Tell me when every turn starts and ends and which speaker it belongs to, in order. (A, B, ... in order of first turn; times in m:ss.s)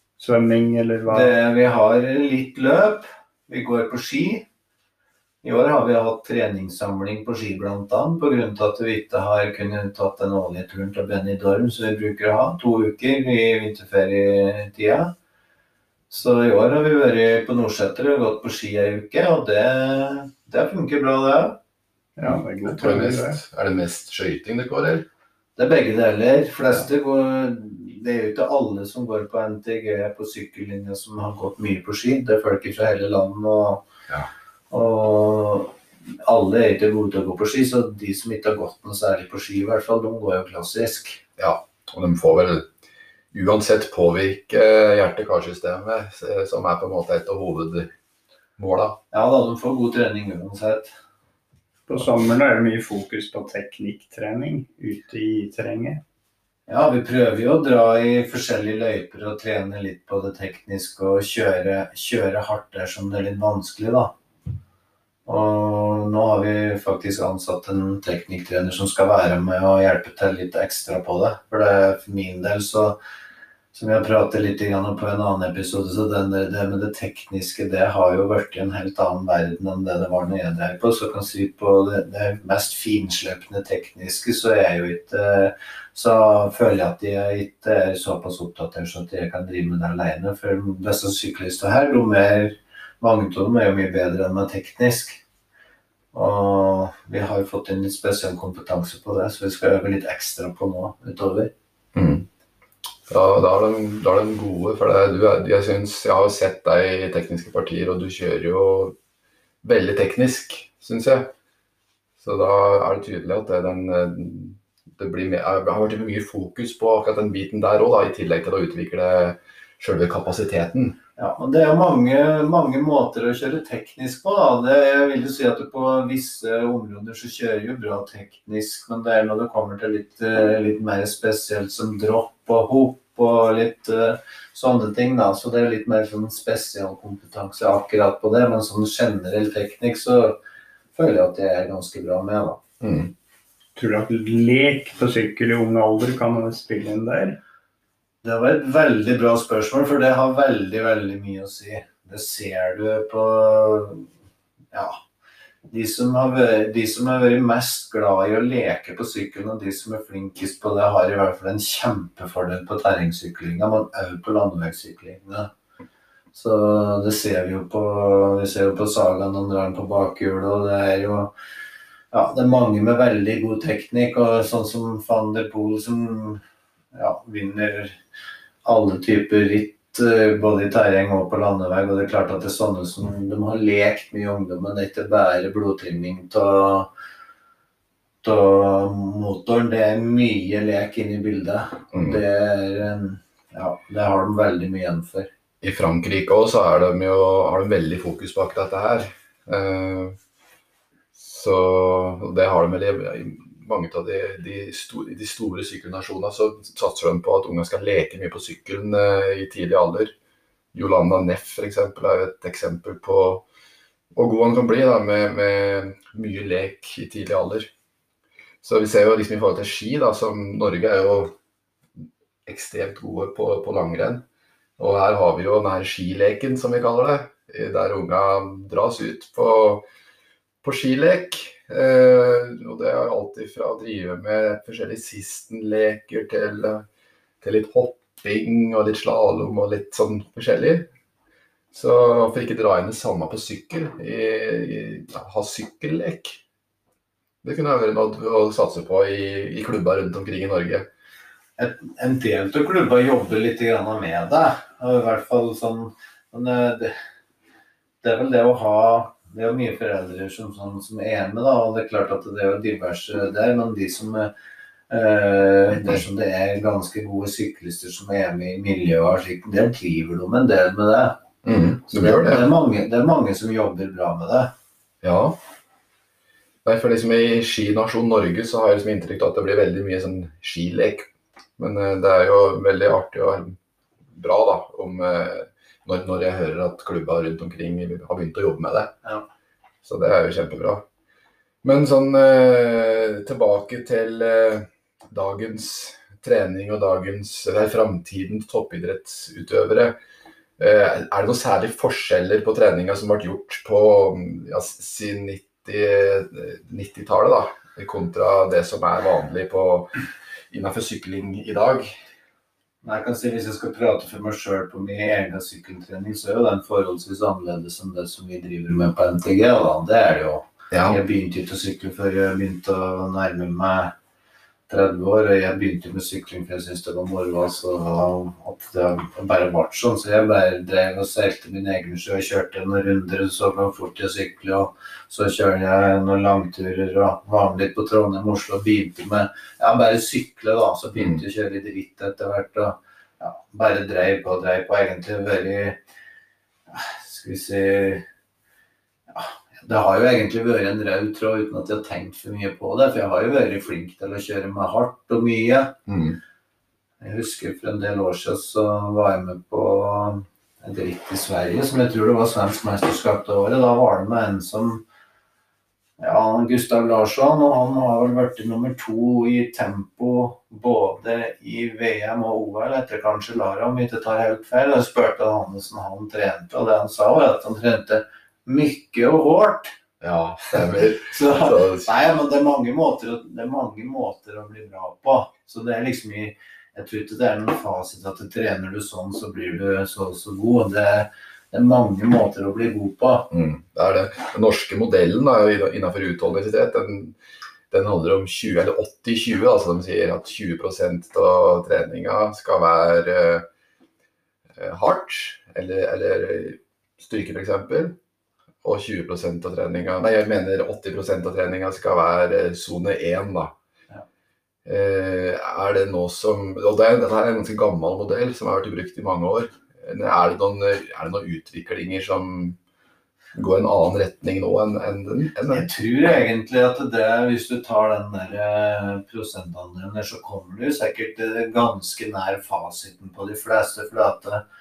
0:00.2-0:01.3 A
0:01.1-0:04.4 B
0:05.4-0:15.1 B
0:16.1-0:21.6 B
0:22.2-0:23.4 A
0:22.2-0:25.1 C
0:25.6-0:33.8 B
0:34.7-0:41.2 B
0:41.4-0:42.7 C
0:43.3-0:47.9 C
0:48.6-0:49.0 C
0:49.1-0:50.9 B
0:51.9-0:56.0 A
0:56.7-1:04.1 B
1:05.3-1:13.0 B
1:13.7-1:35.2 B
1:36.1-1:41.5 B
1:42.0-1:42.3 C
1:43.1-1:49.0 C
1:49.6-1:51.3 C
1:52.2-2:01.0 C
2:01.2-2:20.4 B
2:20.9-2:22.6 B
2:22.8-2:23.1 C
2:23.8-2:27.4 A
2:28.2-2:34.1 B
2:34.7-2:35.0 B
2:35.7-2:45.5 B
2:46.3-2:51.3 B
2:52.1-2:56.4 B
2:56.9-2:58.0 B
2:58.6-3:06.9 B
3:08.2-3:15.3 B
3:11.9-3:12.2 C
3:15.6-3:20.2 C
3:21.1-3:30.1 C
3:30.7-3:33.4 C
3:34.2-3:37.7 C
3:38.6-3:41.4 C
3:42.4-3:44.2 C
3:44.8-3:49.8 C
3:50.6-3:56.8 C
3:57.4-4:00.9 C
4:01.7-4:06.4 C
4:07.4-4:10.9 C
4:11.6-4:17.0 B
4:18.0-4:24.3 B
4:24.9-4:31.2 B
4:31.4-4:32.5 C
4:31.8-4:34.5 B
4:35.0-4:35.4 C
4:36.6-4:43.6 C
4:44.1-4:49.0 C
4:49.8-4:50.8 C
4:51.6-5:00.0 C
5:00.6-5:10.0 C
5:10.5-5:11.9 C
5:12.8-5:23.9 B
5:20.7-5:21.0 C
5:24.7-5:45.8 B
5:46.7-5:48.0 B
5:49.1-5:55.8 B
5:55.9-5:56.2 C
5:57.0-6:04.8 B
6:06.0-6:19.8 B
6:20.0-6:21.9 C
6:20.5-6:33.3 B
6:33.3-6:37.2 C
6:37.7-6:43.5 C
6:44.6-6:48.0 C
6:48.6-6:53.5 C
6:54.7-7:02.6 C
7:03.4-7:05.7 C
7:05.5-7:14.4 B